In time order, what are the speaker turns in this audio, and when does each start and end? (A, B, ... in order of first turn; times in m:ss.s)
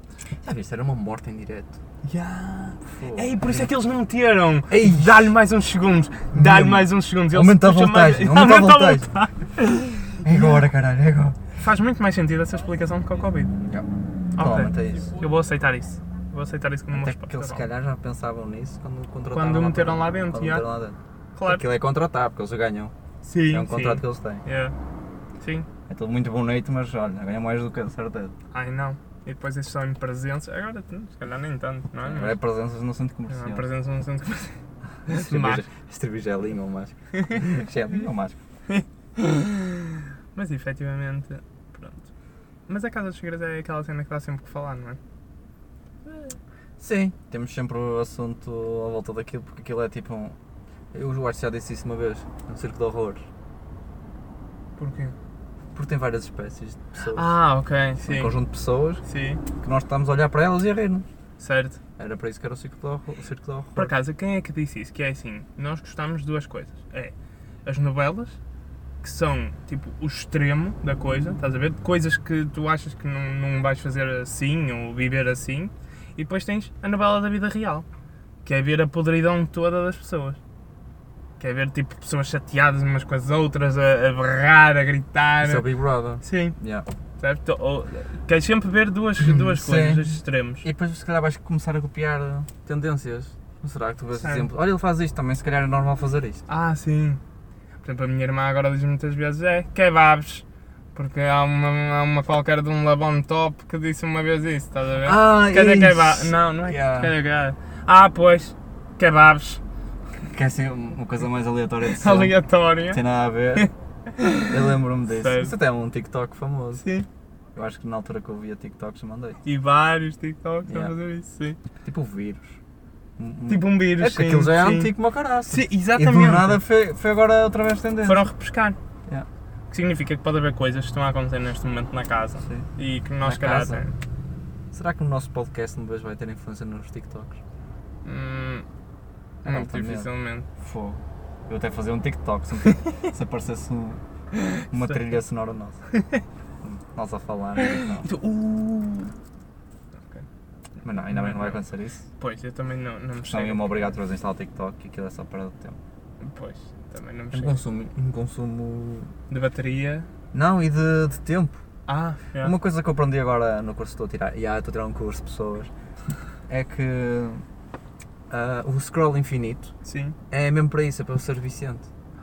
0:00.4-0:01.8 A
0:02.0-0:10.6 B
0:02.9-0:03.7 A
0:04.7-0:05.1 A
0:06.3-0:09.1 A
0:10.2-0:11.4 A
0:11.6-0:13.5 B
0:13.7-0:15.1 A
0:14.4-0:17.6 B
0:16.9-0:22.9 A
0:19.3-0:20.6 B
0:21.4-0:21.6 B
0:23.2-0:24.8 B
0:23.5-0:24.4 A
0:25.4-0:25.7 B
0:25.9-0:28.4 A
0:28.5-0:32.4 B
0:32.0-0:33.7 A
0:33.3-0:34.6 B
0:35.1-0:38.4 A
0:35.1-0:35.6 B
0:37.2-0:37.4 B
0:38.7-0:42.1 B
0:42.7-0:45.0 B
0:46.8-0:50.4 A
0:50.9-0:53.3 A
0:54.8-0:55.2 B
0:55.7-0:57.4 A
0:57.0-0:58.4 B
0:58.0-0:59.0 A
0:59.1-0:59.4 B
0:59.6-1:01.1 A
1:01.4-1:01.8 B
1:02.0-1:03.9 A
1:03.8-1:07.1 B
1:07.7-1:08.4 B
1:09.0-1:17.8 B
1:18.4-1:20.4 B
1:21.4-1:25.6 B
1:25.4-1:26.9 A
1:26.2-1:26.6 B
1:27.2-1:30.7 B
1:29.2-1:36.4 A
1:34.2-1:34.5 B
1:36.5-1:37.2 B
1:37.8-1:49.6 B
1:45.0-1:47.2 A
1:50.3-1:53.7 A
1:51.9-1:53.0 B
1:53.6-1:54.6 B
1:54.5-1:56.8 A
1:55.1-1:55.5 B
1:56.8-1:57.1 B
1:57.6-1:59.4 A
1:59.4-2:01.6 B
2:00.7-2:00.9 A
2:01.8-2:02.6 A
2:03.2-2:08.3 A
2:03.5-2:04.9 B
2:05.5-2:06.6 B
2:08.0-2:08.8 B
2:09.7-2:13.9 B
2:12.4-2:12.7 A
2:13.2-2:13.8 A
2:14.7-2:17.4 A
2:18.0-2:18.7 B
2:19.4-2:24.0 A
2:19.4-2:20.5 B
2:24.3-2:25.0 B
2:24.7-2:25.8 A
2:25.9-2:26.2 B
2:26.6-2:28.1 A
2:27.6-2:29.1 B
2:30.8-2:32.1 A
2:31.1-2:31.6 B
2:32.2-2:33.9 B
2:33.2-2:35.8 A
2:36.2-2:37.6 B
2:37.3-2:39.1 A
2:39.3-2:40.1 B
2:40.3-2:41.6 A
2:41.9-2:42.5 B
2:42.4-2:45.7 A
2:46.5-2:47.4 A
2:48.3-2:49.7 A
2:49.8-2:50.2 B
2:50.3-2:51.9 A